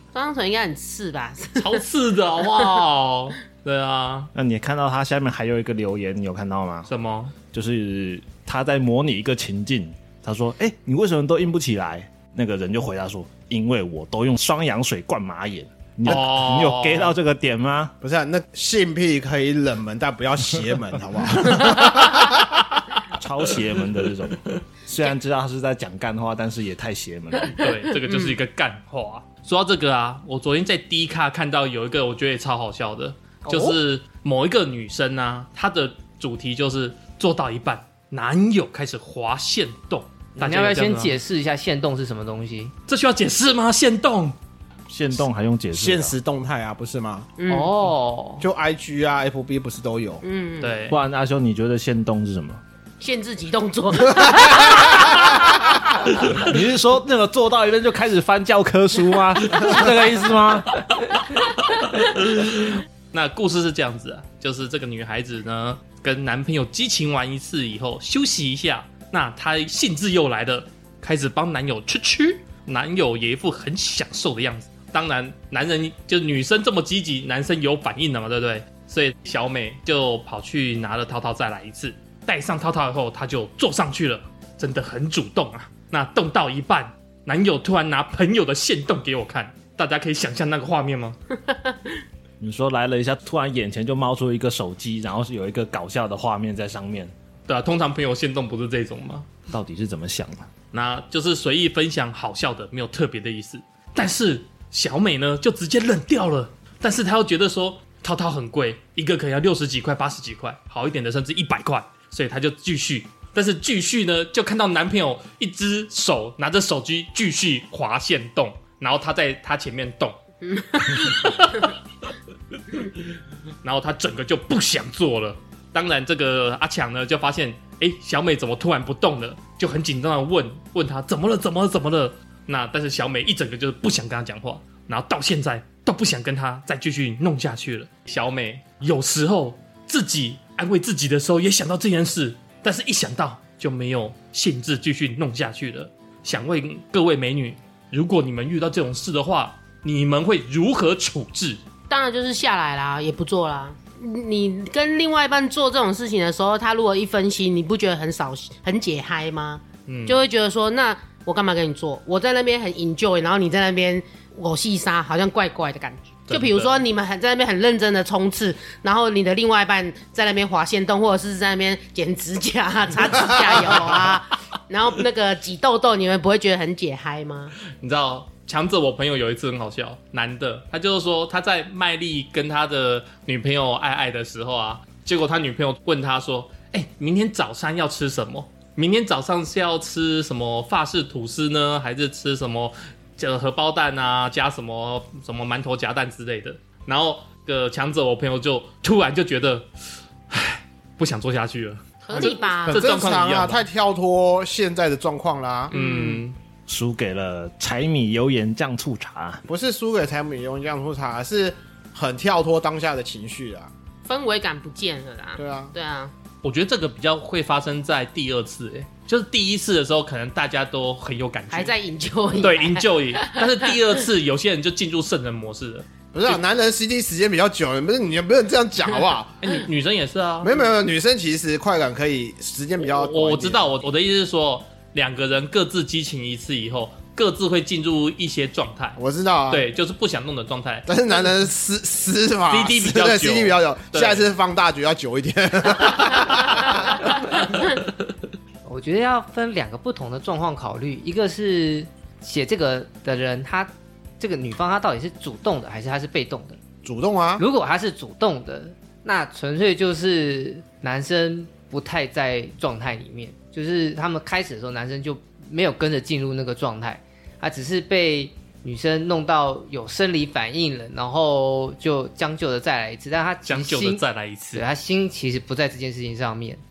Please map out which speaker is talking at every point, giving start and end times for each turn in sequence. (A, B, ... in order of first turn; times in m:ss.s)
0:00.1-0:01.8 A
0:01.6-0:04.3 B
0:04.3-0:06.9 C
0:06.9-0:07.4 B
0:07.4-0:17.9 C
0:16.0-0:17.1 B
0:18.0-0:22.4 D
0:23.1-0:27.6 C
0:27.5-0:41.1 B
0:27.6-0:28.4 A
0:33.5-0:33.8 E
0:40.4-0:42.7 E
0:42.9-0:44.4 B
0:44.9-0:46.1 C
0:45.7-0:47.3 D
0:47.4-0:47.7 A
0:47.5-0:48.4 E
0:48.4-0:50.2 D
0:50.2-0:50.8 A
0:50.6-0:51.0 B
0:50.9-0:52.6 C
0:53.0-0:55.9 A
0:56.3-1:01.2 C
1:01.7-1:31.2 B
1:32.4-1:37.1 C
1:37.5-1:39.3 B
1:39.5-1:40.5 C
1:40.7-2:00.2 B
2:00.4-2:01.7 A
2:00.7-2:01.7 B
2:03.6-2:31.6 B
2:31.9-2:57.5 A
2:39.9-2:40.2 B
2:46.3-2:46.8 B
2:57.8-3:19.7 B
3:20.3-3:23.6 B
3:22.0-3:22.8 A
3:22.1-3:25.7 D
3:25.7-3:26.2 A
3:25.7-3:26.4 B
3:26.7-3:29.4 C
3:29.5-3:33.7 D
3:34.0-3:36.1 A
3:35.4-3:35.7 D
3:36.4-3:41.7 B
3:41.5-3:43.6 A
3:42.4-3:46.4 B
3:46.1-3:49.4 D
3:49.4-3:50.5 B
3:50.4-3:53.6 D
3:52.8-4:00.9 B
3:59.0-3:59.7 D
4:00.9-4:07.0 D
4:02.5-4:04.3 B
4:08.6-4:16.6 E
4:16.8-4:17.4 D
4:17.4-4:34.0 E
4:33.4-4:34.6 B
4:34.5-4:36.6 E